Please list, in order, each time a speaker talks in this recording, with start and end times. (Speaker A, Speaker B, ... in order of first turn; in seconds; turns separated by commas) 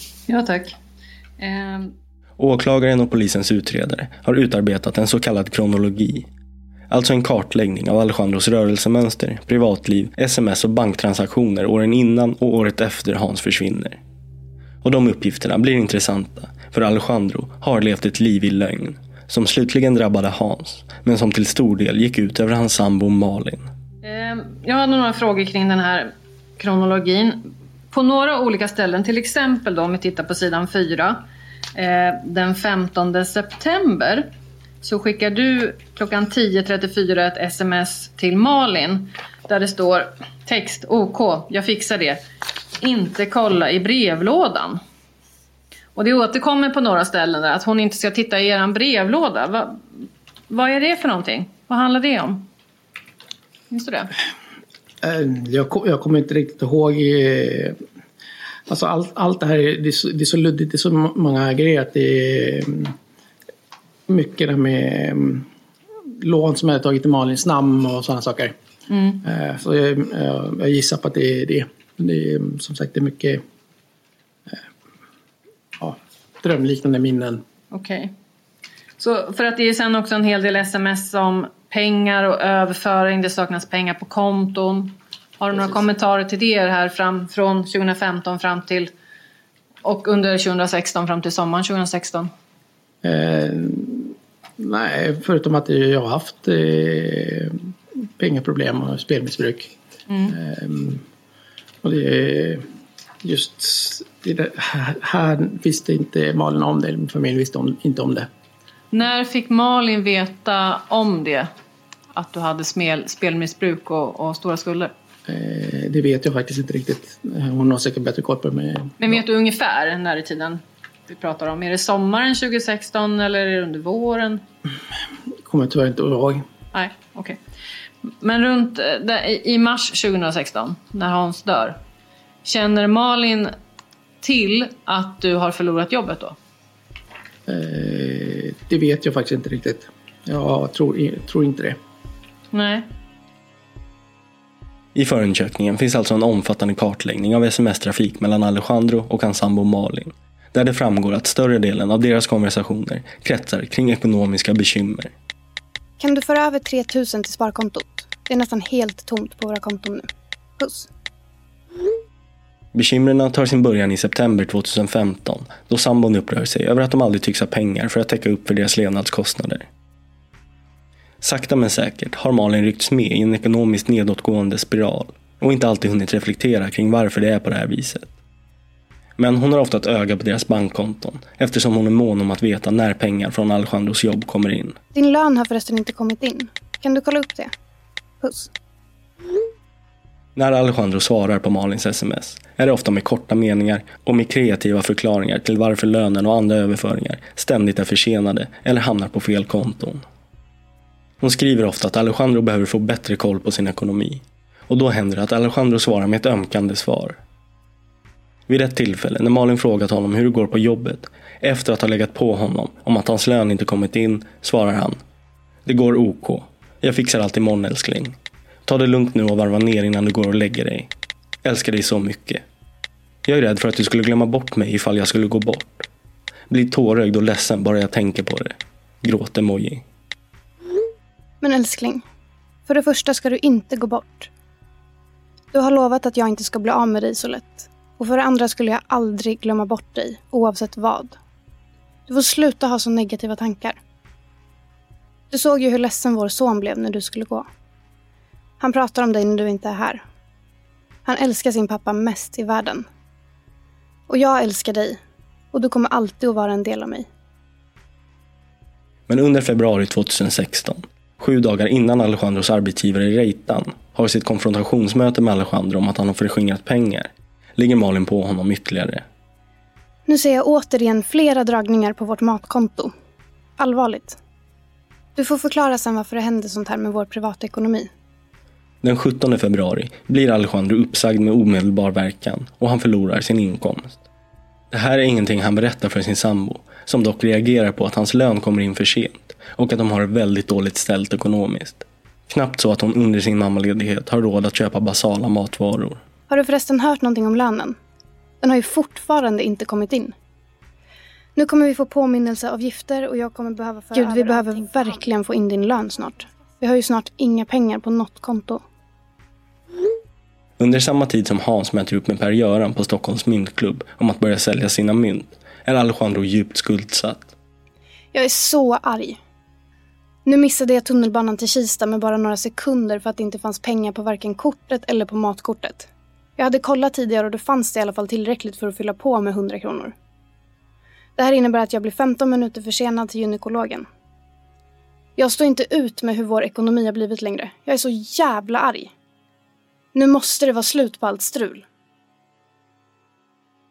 Speaker A: 0.3-0.8, Speaker A: 1.4-1.9, Speaker B: 2.4-6.3, Speaker B: 6.9-14.0, Speaker B: 14.8-23.7, Speaker A: 24.0-31.2, Speaker A: 31.7-34.3, Speaker A: 34.8-42.2, Speaker A: 42.8-44.8, Speaker A: 46.0-52.5, Speaker A: 53.7-54.1, Speaker C: 55.0-57.8, Speaker C: 58.7-62.9, Speaker C: 64.1-65.5, Speaker C: 66.2-68.5, Speaker A: 68.9-69.2, Speaker C: 69.2-73.4, Speaker C: 75.8-77.4, Speaker A: 77.7-78.1, Speaker A: 79.0-88.9, Speaker A: 89.8-92.3, Speaker C: 93.0-97.6, Speaker C: 98.2-99.7, Speaker A: 100.1-100.3, Speaker C: 100.3-101.0, Speaker C: 101.8-102.6, Speaker C: 103.2-108.3, Speaker A: 108.9-111.5, Speaker A: 112.1-114.9, Speaker C: 115.3-119.2, Speaker A: 119.0-124.4, Speaker C: 125.5-126.4, Speaker A: 126.7-127.4, Speaker A: 128.2-131.8, Speaker A: 132.4-133.5, Speaker A: 134.2-136.3, Speaker C: 137.5-141.8, Speaker A: 142.5-142.9, Speaker B: 144.9-155.1, Speaker D: 156.0-160.9, Speaker B: 162.7-169.7, Speaker B: 171.2-178.1, Speaker B: 179.2-184.8, Speaker D: 184.9-187.5, Speaker D: 188.2-188.5, Speaker B: 190.3-200.0, Speaker B: 201.2-207.2, Speaker B: 208.5-215.0, Speaker B: 215.7-220.9, Speaker B: 221.4-222.4, Speaker B: 223.2-225.9, Speaker B: 226.5-229.8, Speaker D: 231.4-232.0, Speaker D: 232.7-234.3, Speaker D: 235.5-241.2, Speaker D: 242.1-243.8, Speaker D: 245.3-247.5, Speaker D: 248.6-250.0, Speaker D: 251.0-252.8, Speaker D: 254.1-255.0, Speaker D: 255.5-257.1, Speaker B: 259.1-269.0, Speaker D: 270.1-272.9, Speaker D: 273.6-274.2, Speaker D: 275.1-277.9, Speaker B: 278.8-284.0, Speaker B: 284.7-296.0, Speaker D: 296.3-297.8, Speaker D: 298.4-300.1, Speaker D: 301.4-308.6, Speaker B: 310.6-317.3, Speaker D: 318.1-319.2, Speaker D: 320.2-329.9, Speaker D: 331.2-333.9, Speaker D: 335.2-338.9, Speaker D: 339.9-341.6